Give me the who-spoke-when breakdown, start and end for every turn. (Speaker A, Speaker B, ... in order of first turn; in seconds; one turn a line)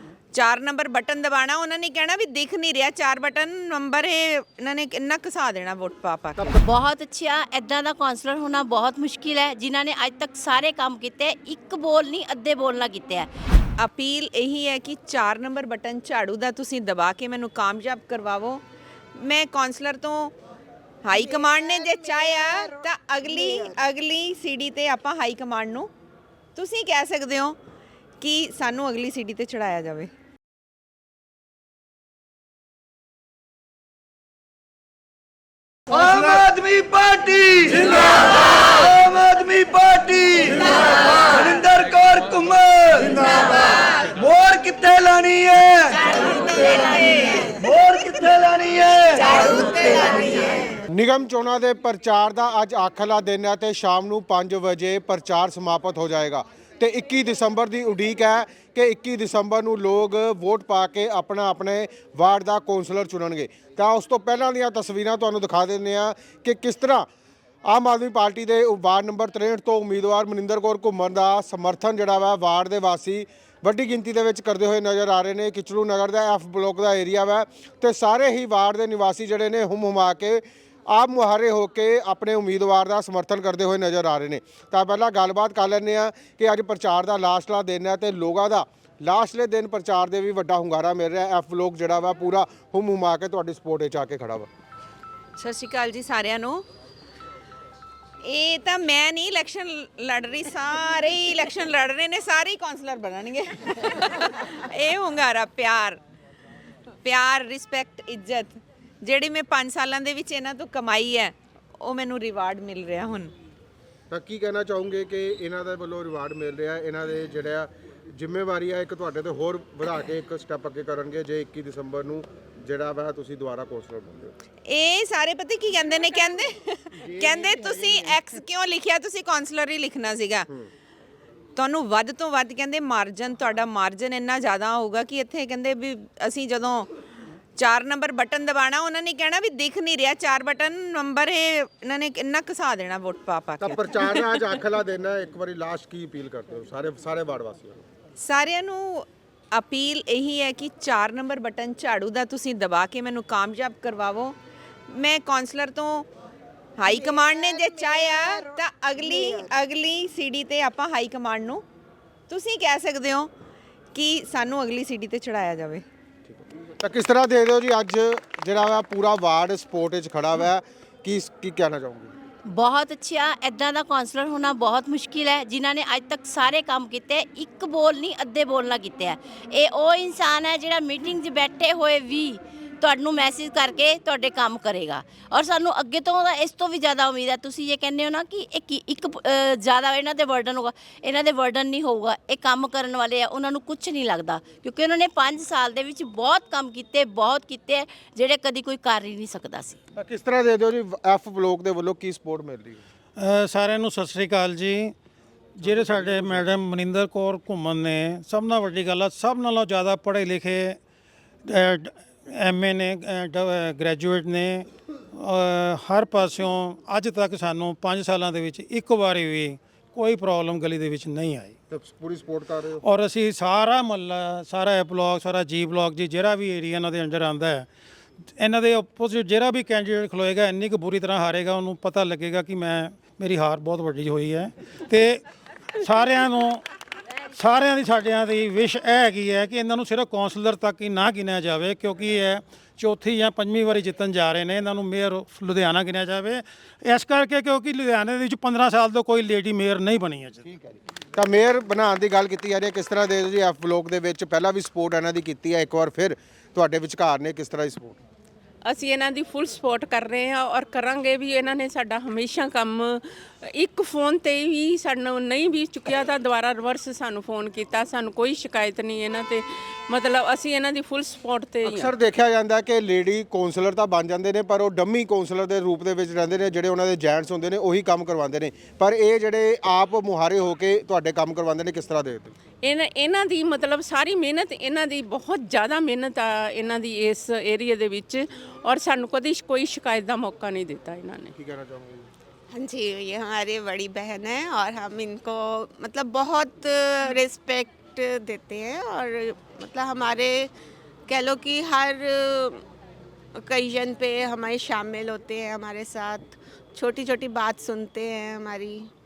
Speaker A: 0.3-6.6
Speaker B: 6.6-13.3
Speaker A: 13.8-18.6
Speaker A: 19.1-20.3
Speaker A: 21.0-25.9
Speaker A: 26.6-27.6
Speaker A: 28.2-30.1
Speaker C: 35.9-50.4
Speaker D: 50.9-67.1
Speaker D: 67.7-94.5
Speaker A: 95.3-96.6
Speaker A: 98.2-106.0
Speaker A: 107.0-113.3
Speaker D: 114.1-124.3
Speaker A: 124.7-130.5
Speaker D: 127.2-128.0
Speaker A: 131.6-136.9
Speaker A: 137.6-144.0
Speaker D: 143.6-147.8
Speaker A: 148.2-154.3
Speaker A: 154.9-156.1
Speaker A: 156.8-161.6
Speaker A: 162.3-163.3
Speaker A: 163.9-165.8
Speaker D: 166.3-172.1
Speaker B: 172.5-199.8
Speaker D: 199.9-202.8
Speaker E: 203.2-204.9
Speaker E: 205.6-210.8
Speaker D: 205.6-206.5
Speaker E: 211.5-221.5
Speaker D: 221.7-222.8
Speaker E: 222.8-227.7
Speaker E: 228.4-235.2
Speaker E: 235.8-236.6
Speaker E: 237.3-250.4
Speaker D: 250.5-258.0
Speaker F: 258.6-263.0
Speaker F: 263.5-271.9
Speaker D: 271.6-282.3
Speaker F: 282.6-291.3
Speaker D: 291.3-292.1
Speaker G: 292.5-300.5
Speaker G: 301.1-302.6
Speaker G: 303.4-308.9